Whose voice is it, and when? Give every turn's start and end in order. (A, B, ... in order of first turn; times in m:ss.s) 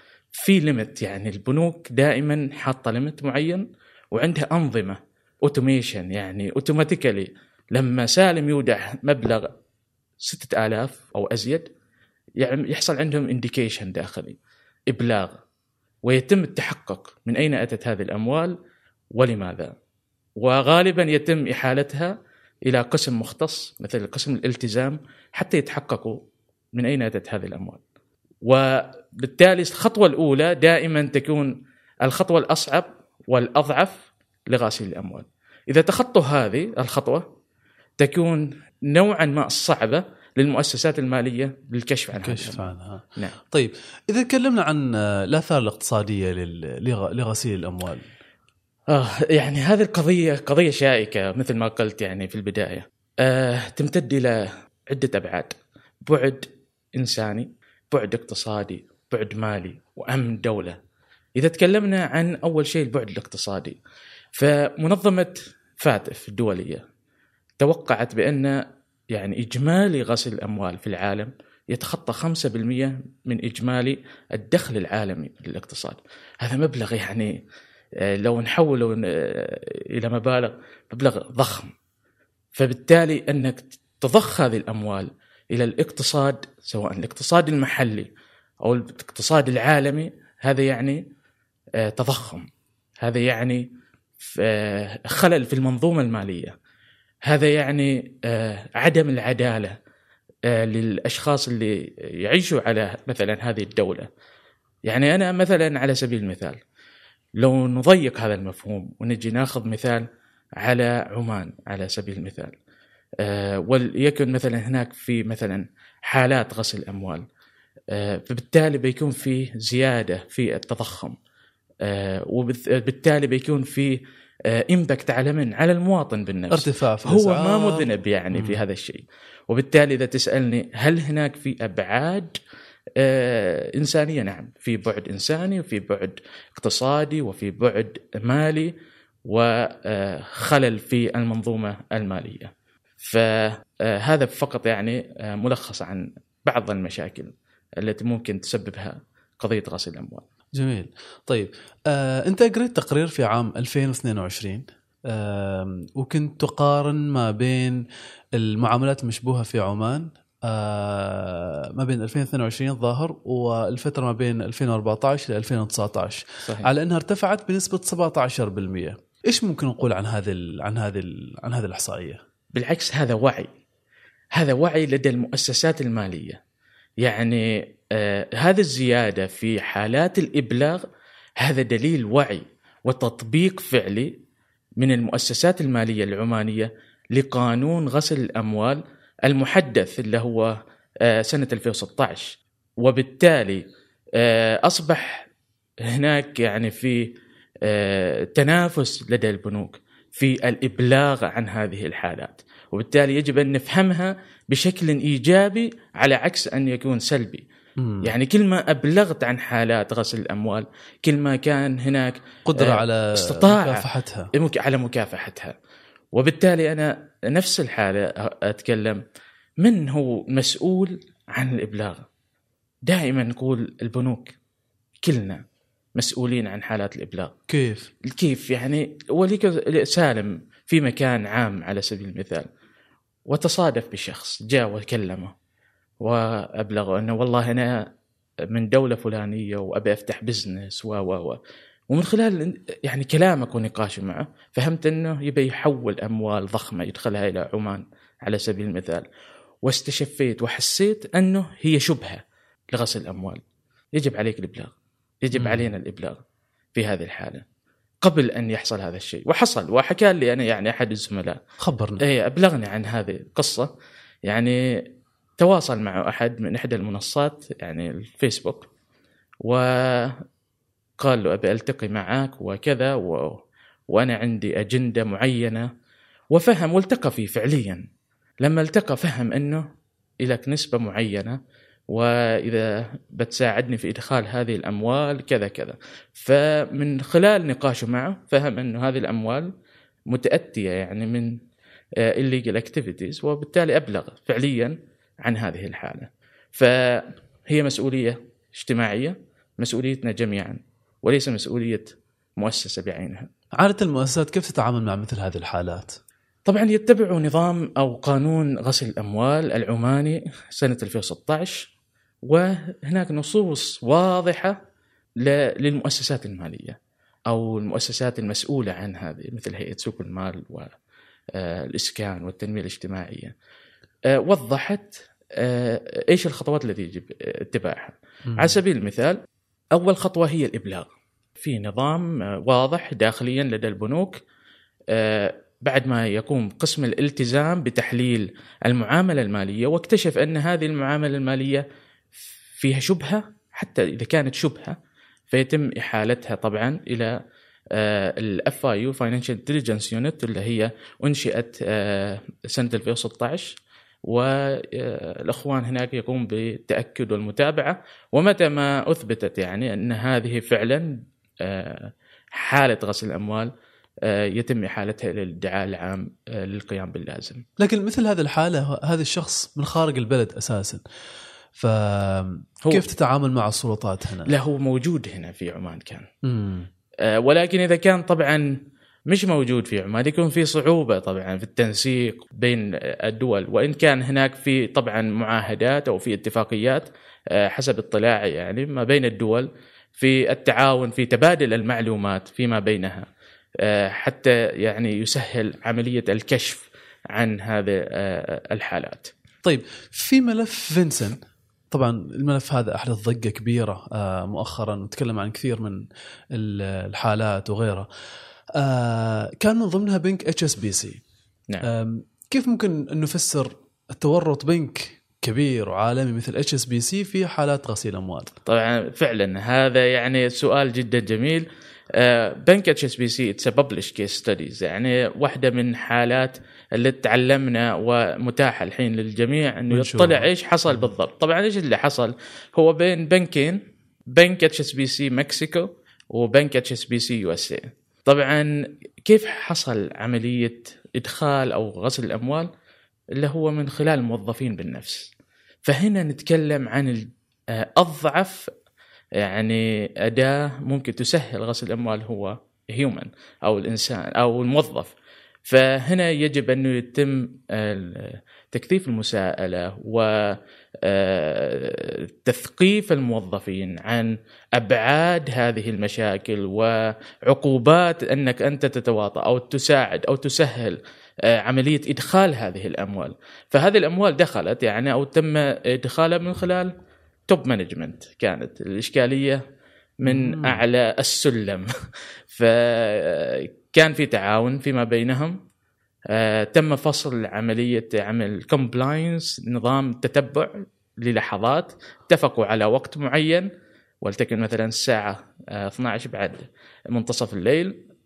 0:00.3-0:09.5 A
0:10.2-0:11.7 A
0:12.4-0:14.4 A
0:14.9-0:15.4 A
0:16.0-0:18.5 A
0:19.1-0:19.7 A
0:20.4-0:22.2 A
0:22.7-0:26.2 A
0:26.8-0:27.8 A
0:28.4-0:31.5 A
0:32.0-0:37.2 A
0:38.0-0:43.4 A
0:42.1-0:48.1 B
0:48.9-1:00.8 A
1:01.4-1:03.8 A
1:04.4-1:06.8 A
1:07.6-1:08.6 A
1:09.1-1:17.3 A
1:18.1-1:21.7 A
1:22.5-1:28.1 A
1:28.6-1:31.0 A
1:31.8-1:32.5 A
1:33.0-1:33.7 A
1:34.2-1:36.5 A
1:37.3-1:39.8 A
1:40.5-1:44.1 A
1:44.9-1:46.6 A
1:47.4-1:50.0 A
1:50.6-1:52.5 A
1:53.2-1:57.2 A
1:57.9-2:01.2 A
2:01.8-2:12.4 A
2:06.5-2:08.6 B
2:13.0-2:18.7 A
2:19.3-2:30.2 A
2:30.6-2:37.8 B
2:38.3-2:52.2 B
2:52.5-2:53.5 A
2:54.4-2:56.4 A
2:57.0-3:00.8 A
3:01.4-3:04.1 A
3:04.8-3:13.6 A
3:14.2-3:15.3 A
3:15.9-3:27.5 A
3:27.8-3:28.1 B
3:28.0-3:33.8 A
3:32.4-3:34.3 B
3:34.3-3:35.6 A
3:36.2-3:39.0 A
3:39.6-3:42.0 A
3:42.9-3:44.4 A
3:45.0-3:45.4 A
3:46.0-3:47.3 A
3:47.5-3:47.9 B
3:48.0-3:52.5 A
3:53.3-3:55.3 A
3:56.0-3:57.9 A
3:58.5-4:01.4 A
4:01.9-4:09.1 A
4:09.6-4:13.4 A
4:14.0-4:14.7 A
4:15.2-4:16.2 A
4:15.4-4:15.7 B
4:16.8-4:17.4 A
4:18.0-4:21.4 A
4:21.6-4:22.0 B
4:22.0-4:23.7 A
4:24.3-4:24.6 A
4:25.4-4:28.7 A
4:29.4-4:30.2 A
4:31.0-4:33.4 A
4:33.9-4:35.7 A
4:36.3-4:37.9 A
4:38.4-4:39.7 A
4:40.2-4:41.4 A
4:41.9-4:49.5 A
4:50.1-4:51.4 A
4:52.0-5:03.3 A
5:03.6-5:06.0 B
5:06.5-5:11.7 A
5:12.2-5:14.6 A
5:15.2-5:16.8 A
5:17.3-5:20.7 A
5:21.3-5:23.3 A
5:24.1-5:29.2 A
5:28.3-5:28.6 B
5:29.7-5:34.2 A
5:34.9-5:41.6 A
5:42.6-5:44.8 A
5:45.3-5:47.1 A
5:47.7-6:03.5 A
6:04.0-6:07.4 A
6:07.6-6:10.8 B
6:11.6-6:14.3 B
6:14.3-6:16.1 A
6:16.2-6:16.7 B
6:17.0-6:18.5 A
6:19.1-6:33.1 A
6:33.6-6:39.1 A
6:39.4-6:41.2 B
6:41.7-6:47.9 B
6:48.6-6:51.0 B
6:51.6-6:58.3 B
6:58.5-7:13.6 A
7:09.7-7:10.3 B
7:14.1-7:22.5 A
7:23.2-7:25.1 A
7:25.6-7:28.5 A
7:29.2-7:34.9 A
7:35.5-7:56.7 A
7:57.3-7:59.4 A
8:00.0-8:01.7 A
8:00.1-8:00.6 B
8:02.3-8:05.4 A
8:06.1-8:13.5 A
8:14.0-8:17.8 A